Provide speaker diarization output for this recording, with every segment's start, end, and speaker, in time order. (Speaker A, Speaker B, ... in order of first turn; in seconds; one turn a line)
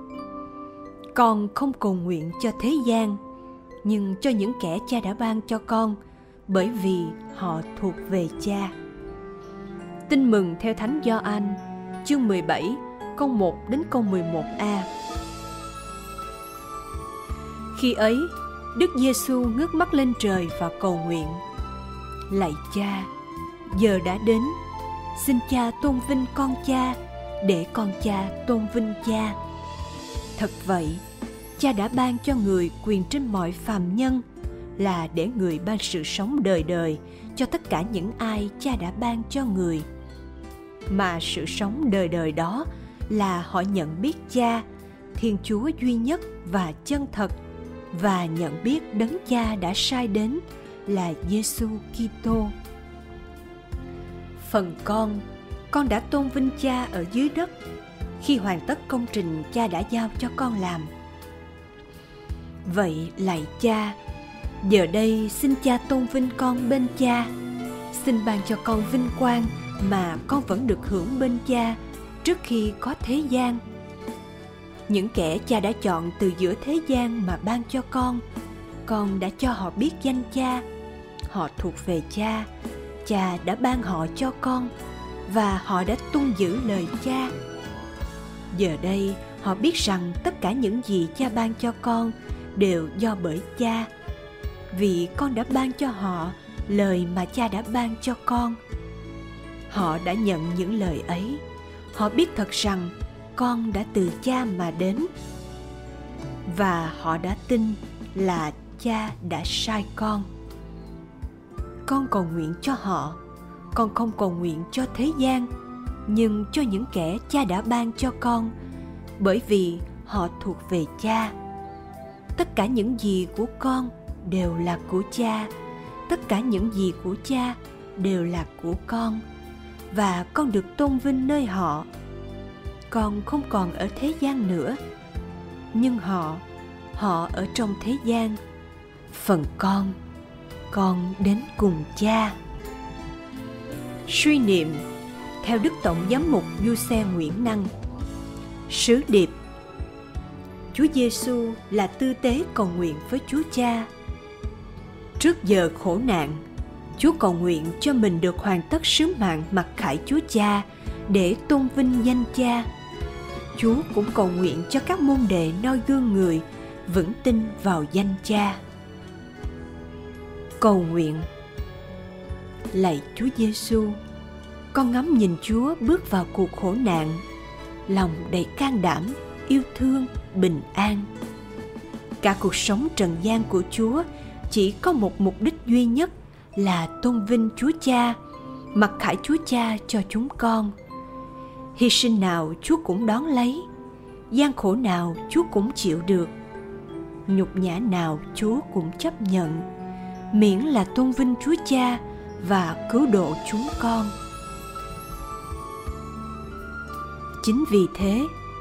Speaker A: 1.1-3.2
Speaker A: 3.8-8.7
Speaker A: 10.1-14.9
Speaker A: 17.7-21.4
Speaker A: 22.3-23.1
Speaker A: 23.7-24.6
Speaker A: 25.1-29.4
Speaker A: 30.4-31.0
Speaker A: 31.6-34.2
Speaker A: 34.8-39.9
Speaker A: 40.9-47.3
Speaker A: 47.9-52.5
Speaker A: 54.4-57.5
Speaker A: 58.2-60.9
Speaker A: 62.6-64.0
Speaker A: 64.6-67.3
Speaker A: 67.9-73.6
Speaker A: 74.9-78.2
Speaker A: 78.8-80.6
Speaker A: 81.3-82.5
Speaker A: 83.0-84.7
Speaker A: 85.3-87.3
Speaker A: 88.5-93.9
Speaker A: 94.7-98.6
Speaker A: 99.7-101.4
Speaker A: 101.9-105.1
Speaker A: 106.5-110.3
Speaker A: 111.8-113.2
Speaker A: 113.7-115.5
Speaker A: 116.0-118.5
Speaker A: 119.2-121.3
Speaker A: 122.3-125.5
Speaker A: 126.1-129.2
Speaker A: 129.9-131.9
Speaker A: 132.9-134.8
Speaker A: 135.7-136.4
Speaker A: 136.9-138.4
Speaker A: 139.1-139.9
Speaker A: 140.7-142.4
Speaker A: 144.1-144.8
Speaker A: 145.4-147.7
Speaker A: 148.7-149.3
Speaker A: 150.7-153.9
Speaker A: 155.2-156.4
Speaker A: 156.9-162.7
Speaker A: 163.5-168.6
Speaker A: 170.6-171.2
Speaker A: 172.7-174.0
Speaker A: 174.7-177.2
Speaker A: 177.9-181.1
Speaker A: 182.2-188.2
Speaker A: 188.7-190.7
Speaker A: 191.7-193.7
Speaker A: 194.3-196.3
Speaker A: 197.3-199.6
Speaker A: 200.3-204.1
Speaker A: 207.4-208.3